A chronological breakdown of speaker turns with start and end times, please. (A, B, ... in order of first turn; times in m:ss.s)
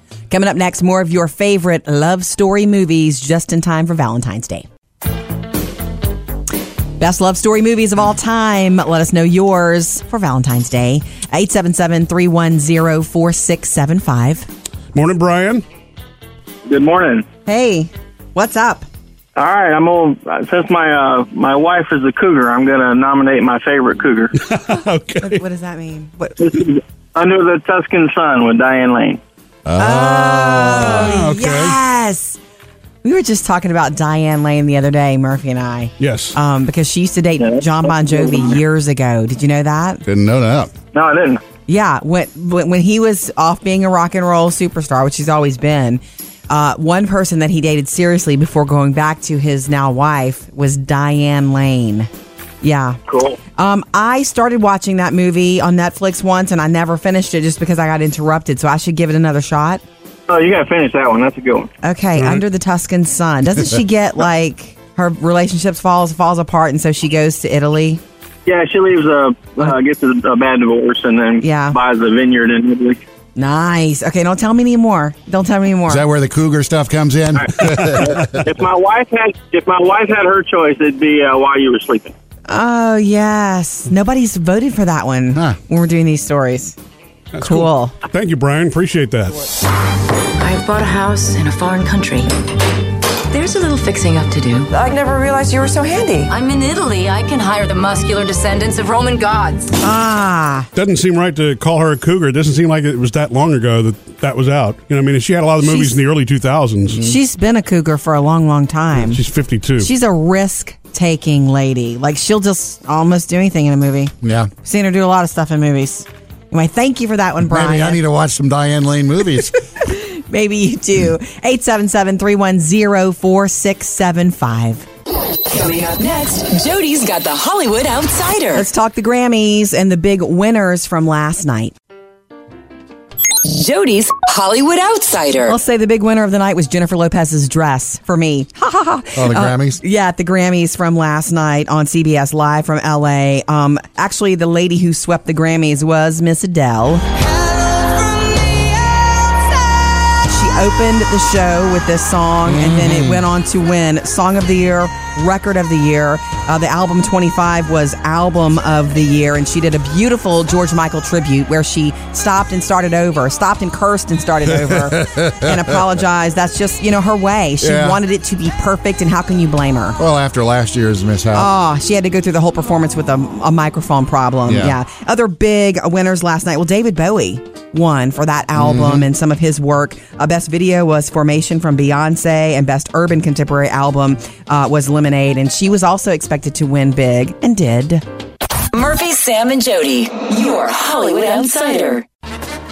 0:00.3-0:04.6 A
0:07.0-0:14.5 A
0:14.9-0:15.6 B
0:16.7-0:17.3 C
0:17.5-0:18.9 A
0:19.4-0:24.3 C
0:24.4-0:25.4 B
0:25.2-0:26.4 A
0:26.4-0:29.2 C
0:29.7-0:31.2 D
0:29.8-0:32.4 A
0:30.5-0:31.8 B
0:33.0-0:40.0 A
0:36.0-0:36.4 B
0:37.4-0:38.6 C
0:40.1-0:40.7 D
0:40.9-0:41.4 C
0:41.7-0:52.1 A
0:52.6-0:53.0 A
0:53.1-0:53.4 C
0:53.5-0:59.8 A
1:00.3-1:01.7 C
1:01.8-1:08.0 A
1:02.2-1:02.4 B
1:08.5-1:13.0 C
1:11.4-1:11.8 A
1:13.4-1:16.0 A
1:15.9-1:18.4 D
1:17.4-1:22.1 C
1:22.5-1:26.8 A
1:27.4-1:29.4 B
1:27.4-1:27.9 A
1:30.4-1:32.3 E
1:33.3-1:34.7 E
1:36.3-1:39.7 E
1:39.8-1:40.7 A
1:40.7-1:47.0 B
1:45.6-1:46.0 A
1:47.0-1:49.2 A
1:48.9-1:49.9 B
1:49.8-1:58.0 A
1:54.2-1:54.5 D
1:57.4-1:59.6 D
1:59.8-2:04.8 A
2:05.5-2:08.7 F
2:08.5-2:11.7 A
2:13.4-2:15.6 F
2:15.5-2:27.0 A
2:19.2-2:19.8 D
2:30.3-2:50.0 A
2:32.5-2:33.3 D
2:44.5-2:45.8 D
2:47.6-2:48.0 D
2:50.0-2:51.5 D
2:51.3-3:08.0 A
2:54.5-2:54.8 D
2:58.6-2:59.1 D
3:08.7-3:12.0 F